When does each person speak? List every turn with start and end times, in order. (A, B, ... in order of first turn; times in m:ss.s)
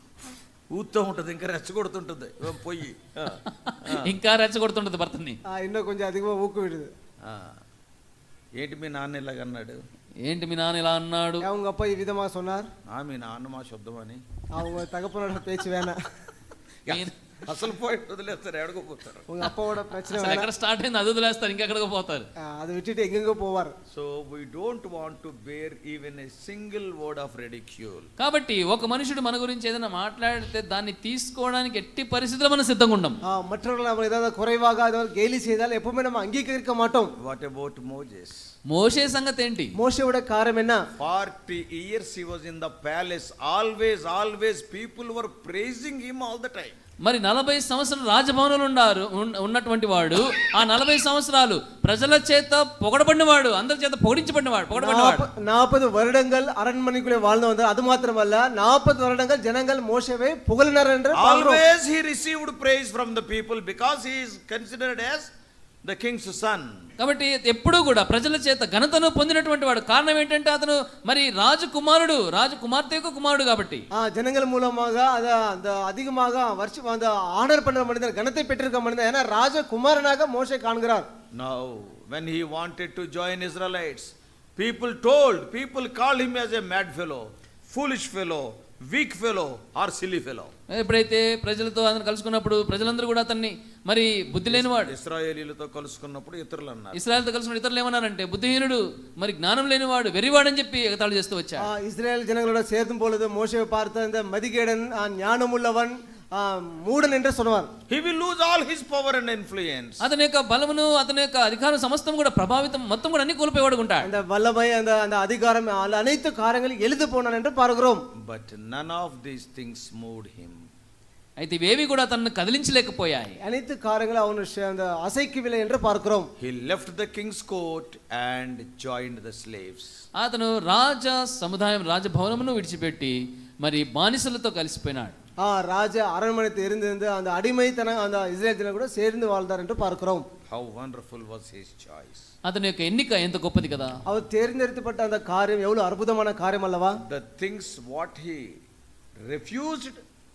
0:00.7-0:04.1 A
0:03.6-0:05.4 B
0:05.5-0:06.9 C
0:07.2-0:07.6 A
0:08.6-0:09.8 A
0:10.2-0:11.5 B
0:11.4-0:12.7 C
0:12.9-0:14.2 A
0:14.5-0:16.0 C
0:16.9-0:19.4 A
0:16.9-0:17.1 B
0:19.3-0:20.5 C
0:20.1-0:22.3 B
0:22.5-0:23.7 C
0:23.9-0:28.1 A
0:28.2-0:33.2 B
0:33.3-0:37.1 C
0:37.2-0:38.4 A
0:38.7-0:39.8 B
0:39.8-0:40.8 C
0:41.0-0:46.8 A
0:47.0-0:55.3 B
0:54.8-1:01.6 C
1:01.1-1:05.3 A
1:05.8-1:06.9 A
1:07.0-1:13.8 B
1:14.0-1:21.1 C
1:21.4-1:30.5 A
1:30.7-1:34.9 B
1:34.5-1:37.0 A
1:36.9-1:41.7 B
1:41.6-1:47.7 C
1:47.9-1:50.0 A
1:50.0-1:54.1 B
1:54.0-1:58.0 C
1:58.2-2:00.6 A
2:01.4-2:03.4 B
2:03.4-2:06.3 C
2:06.4-2:10.0 A
2:10.2-2:15.2 B
2:15.4-2:20.2 C
2:20.5-2:22.3 A
2:22.4-2:24.0 B
2:24.1-2:27.0 C
2:27.0-2:28.6 A
2:29.2-2:30.0 A